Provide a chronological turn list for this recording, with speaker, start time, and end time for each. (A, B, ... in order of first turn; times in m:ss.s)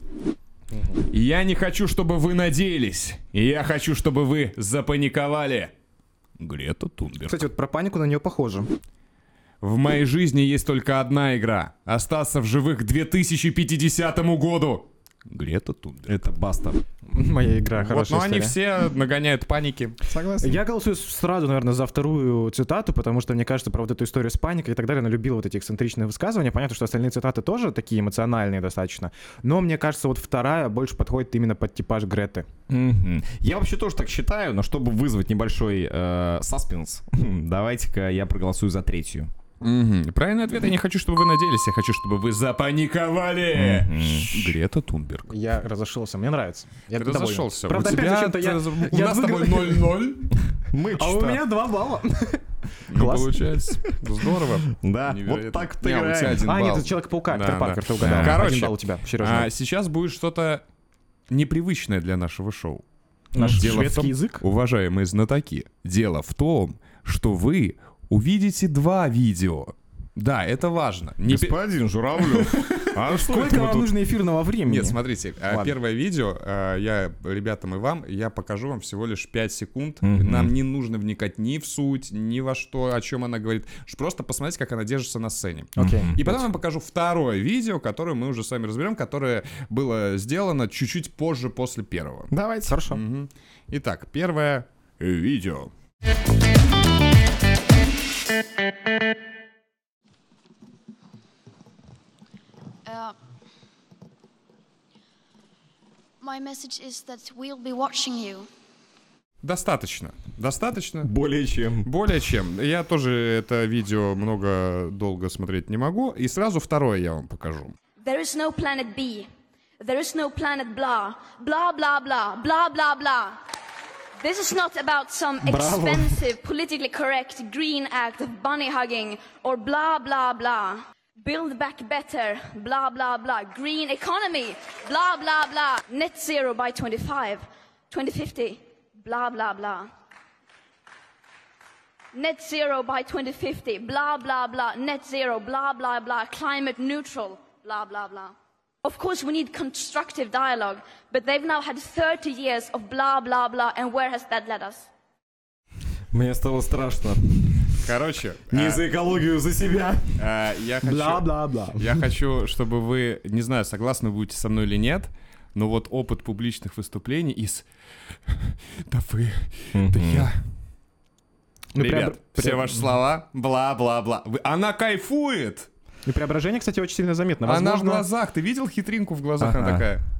0:00.7-0:01.0 A
0:01.1-0:05.7 B
0:06.4-0:07.4 B
0:07.2-0:08.7 A
0:09.6-0:16.2 B
0:16.1-0:16.8 C
0:17.1-0:18.6 A
0:17.8-0:20.0 B
0:20.0-0:20.6 C
0:20.4-0:32.5 A
0:32.7-0:39.3 C
0:39.6-0:45.3 B
0:43.5-0:44.6 C
0:45.3-0:49.9 A
0:46.9-0:50.3 B
0:50.6-0:51.4 C
0:50.9-0:53.4 A
0:52.9-1:00.6 B
0:54.7-0:56.6 C
0:56.4-0:59.5 A
0:58.0-0:58.4 C
1:01.3-1:02.8 B
1:03.3-1:04.4 A
1:03.4-1:03.6 C
1:03.5-1:11.6 B
1:11.2-1:13.9 C
1:12.2-1:12.9 B
1:13.1-1:15.0 A
1:14.6-1:32.3 B
1:15.5-1:15.7 A
1:20.0-1:20.5 C
1:25.8-1:26.4 A
1:25.8-1:26.1 C
1:32.3-1:32.8 C
1:32.7-1:33.0 A
1:32.9-1:35.7 B
1:42.9-1:43.1 D
1:46.2-1:48.5 D
1:49.4-1:51.1 B
1:51.0-1:51.9 C
1:51.8-1:57.7 B
1:58.0-1:59.3 E
1:59.8-2:03.4 E
2:04.2-2:19.9 E
2:05.4-2:06.2 A
2:22.1-2:34.9 E
2:36.1-2:37.8 C
2:37.7-2:38.9 B
2:38.5-2:40.2 C
2:40.2-2:41.2 B
2:40.8-2:42.1 A
2:41.8-2:47.6 B
2:48.3-2:50.4 B
2:49.7-2:50.3 C
2:51.7-2:52.8 A
2:51.8-2:55.7 B
2:56.1-2:58.0 A
2:57.4-3:00.0 B
2:59.4-2:59.9 C